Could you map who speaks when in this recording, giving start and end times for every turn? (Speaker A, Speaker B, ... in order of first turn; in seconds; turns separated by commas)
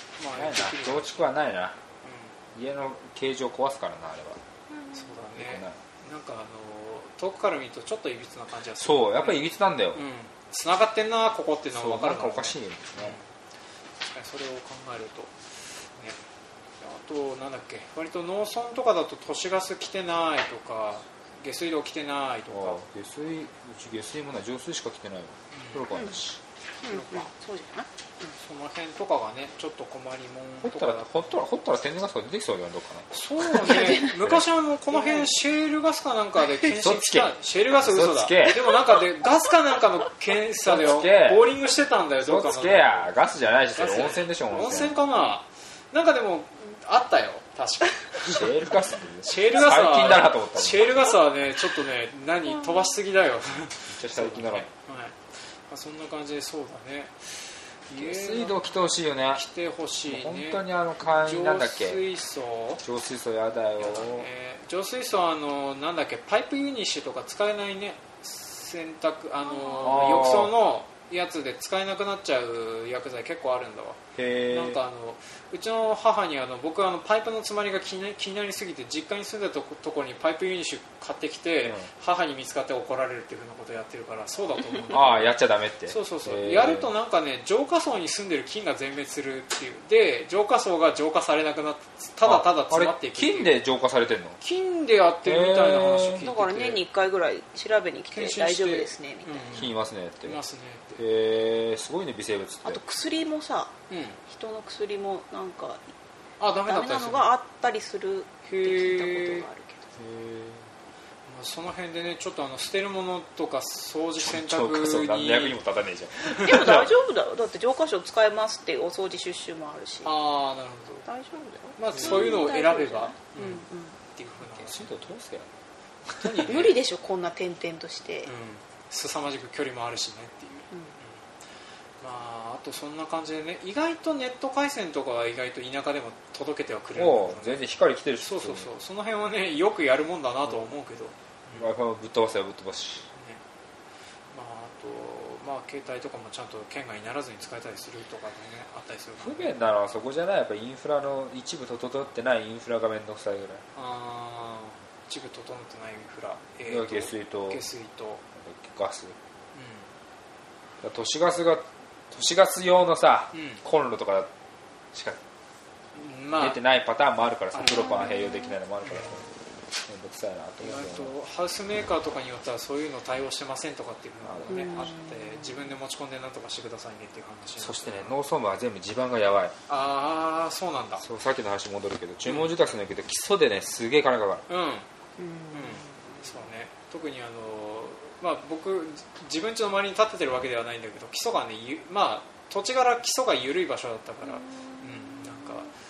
Speaker A: 0.2-1.2, Speaker B: 0.3-1.8, Speaker A: 2.0-2.4, Speaker B: 2.5-4.4, Speaker C: 4.7-5.2, Speaker A: 4.9-13.3, Speaker B: 5.4-5.8, Speaker B: 8.8-10.0, Speaker B: 11.7-13.2, Speaker A: 14.1-15.3, Speaker A: 16.8-22.8, Speaker B: 22.5-26.4, Speaker A: 25.5-25.9, Speaker C: 25.9-26.2, Speaker C: 26.8-28.3, Speaker A: 26.9-27.3, Speaker A: 28.4-31.3, Speaker B: 30.6-34.5, Speaker A: 33.1-43.1, Speaker C: 33.6-34.2, Speaker C: 34.9-35.4, Speaker B: 36.8-38.7, Speaker B: 40.6-41.5, Speaker B: 42.2-45.0, Speaker A: 43.8-48.6, Speaker B: 48.2-50.9, Speaker A: 49.2-58.6, Speaker B: 53.9-54.7, Speaker B: 57.9-59.5, Speaker A: 59.3-62.8, Speaker B: 60.1-62.0, Speaker B: 62.8-64.3, Speaker A: 63.8-93.5, Speaker C: 69.4-70.1, Speaker B: 69.8-70.6, Speaker B: 74.2-74.8, Speaker B: 84.9-86.9, Speaker B: 92.2-94.4, Speaker A: 94.4-96.8, Speaker B: 95.2-96.3, Speaker C: 96.2-99.7, Speaker A: 98.1-100.8, Speaker B: 99.5-100.4, Speaker B: 100.9-102.8, Speaker C: 102.6-103.7, Speaker A: 103.9-104.2, Speaker C: 104.3-105.9, Speaker A: 106.4-107.3, Speaker C: 106.7-109.9, Speaker A: 108.5-109.5, Speaker B: 110.0-110.7, Speaker A: 111.3-115.6, Speaker B: 114.2-116.9, Speaker C: 116.3-120.1, Speaker A: 116.3-116.6, Speaker A: 120.0-121.1, Speaker C: 121.1-124.0, Speaker A: 121.8-125.0, Speaker B: 124.5-125.6, Speaker B: 126.1-126.4, Speaker A: 126.1-126.8, Speaker C: 126.5-128.3, Speaker A: 128.2-131.2, Speaker C: 130.7-131.0, Speaker A: 132.0-137.6, Speaker B: 137.0-138.7, Speaker A: 138.2-141.7, Speaker B: 141.6-143.1, Speaker A: 143.1-143.4, Speaker A: 144.3-149.5, Speaker B: 149.2-153.6, Speaker A: 153.8-158.2, Speaker B: 156.7-157.6, Speaker B: 158.3-159.2, Speaker A: 159.5-159.9, Speaker B: 160.8-164.3, Speaker A: 163.3-163.6, Speaker B: 164.9-165.2, Speaker A: 165.9-166.6, Speaker B: 166.3-169.3, Speaker A: 167.5-168.2, Speaker C: 167.7-168.6, Speaker A: 168.8-169.2, Speaker B: 169.9-171.1, Speaker A: 170.6-178.2, Speaker B: 174.2-174.9, Speaker C: 174.5-175.7, Speaker B: 177.6-179.6, Speaker A: 179.7-181.0, Speaker B: 181.0-184.4, Speaker A: 182.3-182.5, Speaker A: 184.5-184.9, Speaker C: 185.2-186.3, Speaker A: 185.5-195.7, Speaker C: 194.3-195.2